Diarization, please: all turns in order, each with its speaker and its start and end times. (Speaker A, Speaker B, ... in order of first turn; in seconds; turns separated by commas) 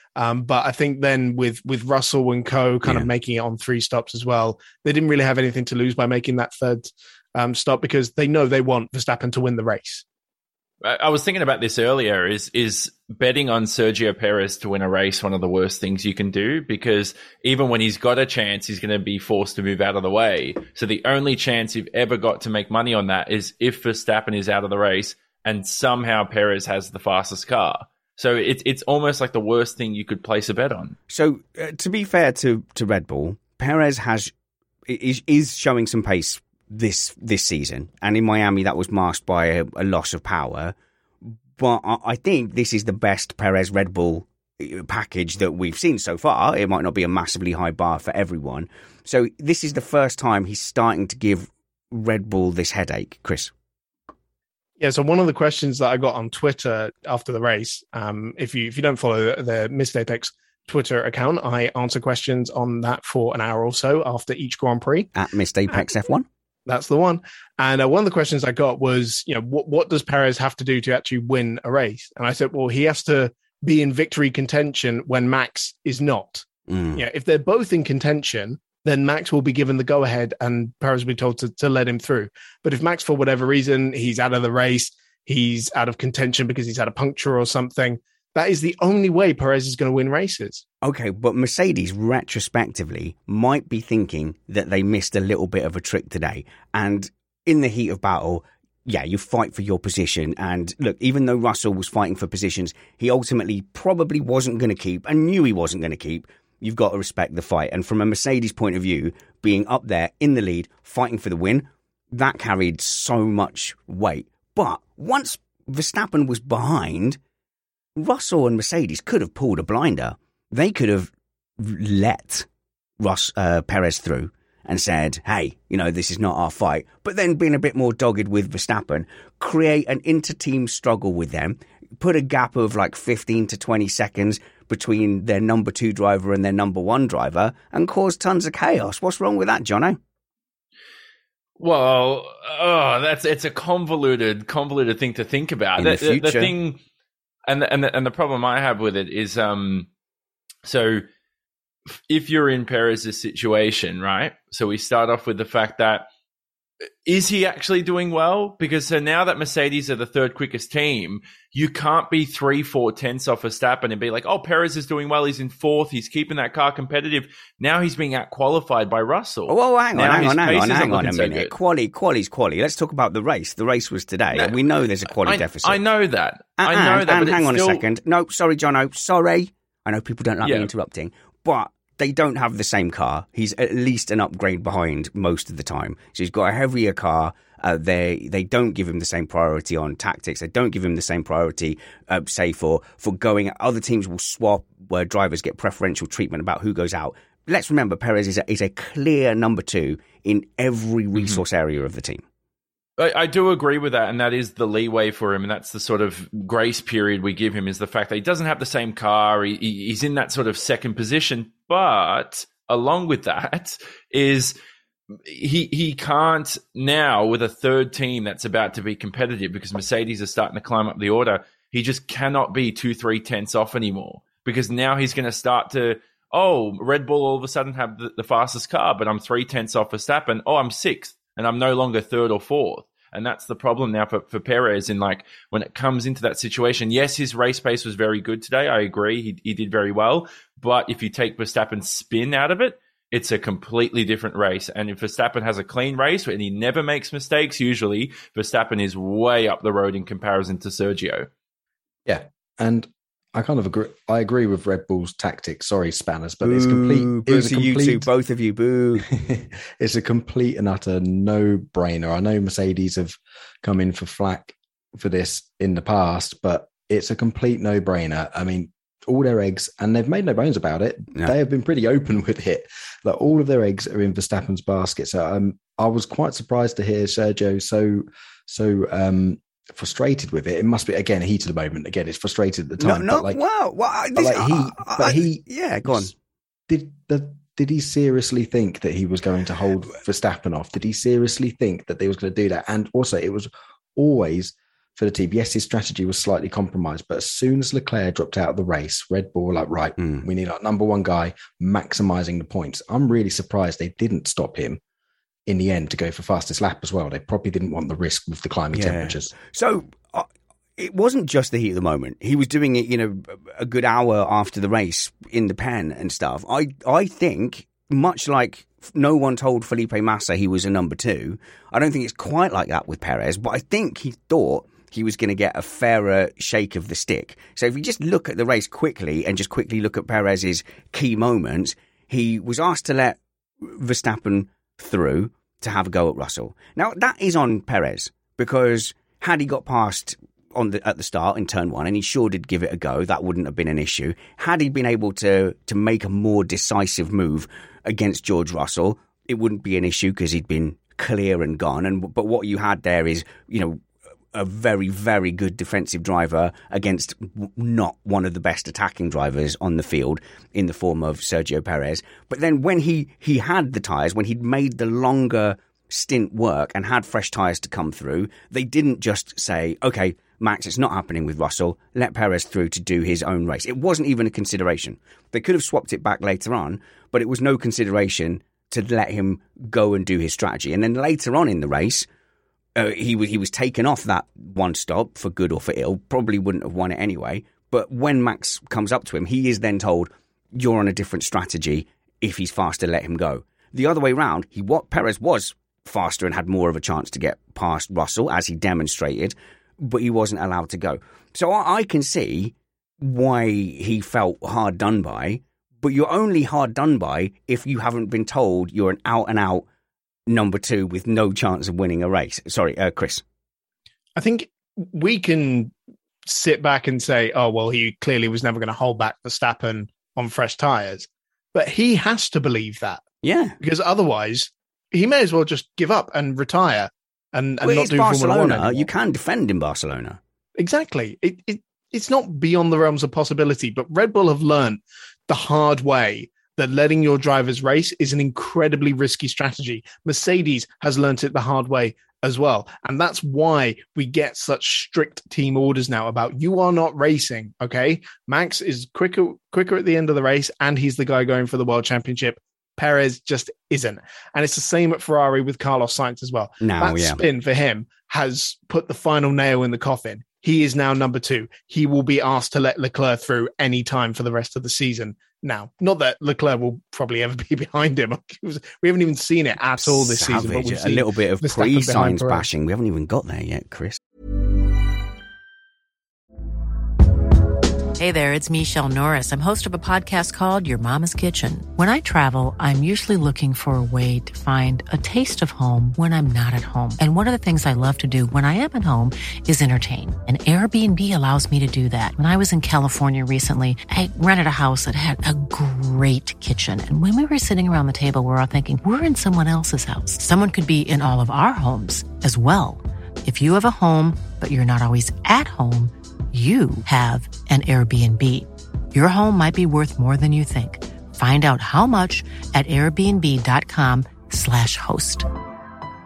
Speaker A: 0.2-10.0, Speaker B: 2.8-3.1, Speaker C: 10.8-31.0, Speaker B: 31.1-34.3, Speaker B: 34.9-53.5, Speaker A: 54.8-65.1, Speaker B: 65.1-66.3, Speaker A: 66.7-90.6, Speaker B: 76.7-77.0, Speaker B: 90.8-117.2, Speaker B: 118.0-122.5, Speaker B: 123.0-140.0, Speaker C: 141.6-146.8, Speaker B: 145.8-146.5, Speaker C: 147.5-149.9, Speaker C: 150.6-151.0, Speaker C: 152.1-156.1, Speaker C: 157.1-171.5, Speaker B: 169.5-175.8, Speaker C: 175.1-177.8, Speaker B: 176.6-202.2, Speaker C: 180.4-180.7, Speaker C: 201.2-201.4, Speaker C: 203.0-214.6, Speaker C: 215.3-251.3, Speaker D: 252.1-258.1, Speaker B: 256.4-259.1, Speaker D: 259.0-283.4, Speaker B: 282.8-286.1, Speaker D: 284.1-286.1, Speaker D: 286.7-304.8, Speaker B: 300.0-300.2, Speaker D: 305.5-309.3, Speaker B: 308.7-353.8, Speaker B: 354.3-382.1, Speaker B: 382.8-409.7, Speaker B: 410.3-413.2, Speaker A: 414.2-415.7, Speaker A: 416.3-423.0, Speaker B: 423.2-423.6, Speaker A: 423.6-428.9, Speaker B: 427.6-430.2, Speaker A: 430.6-472.5, Speaker B: 456.6-457.2, Speaker B: 469.8-474.0, Speaker E: 478.0-515.3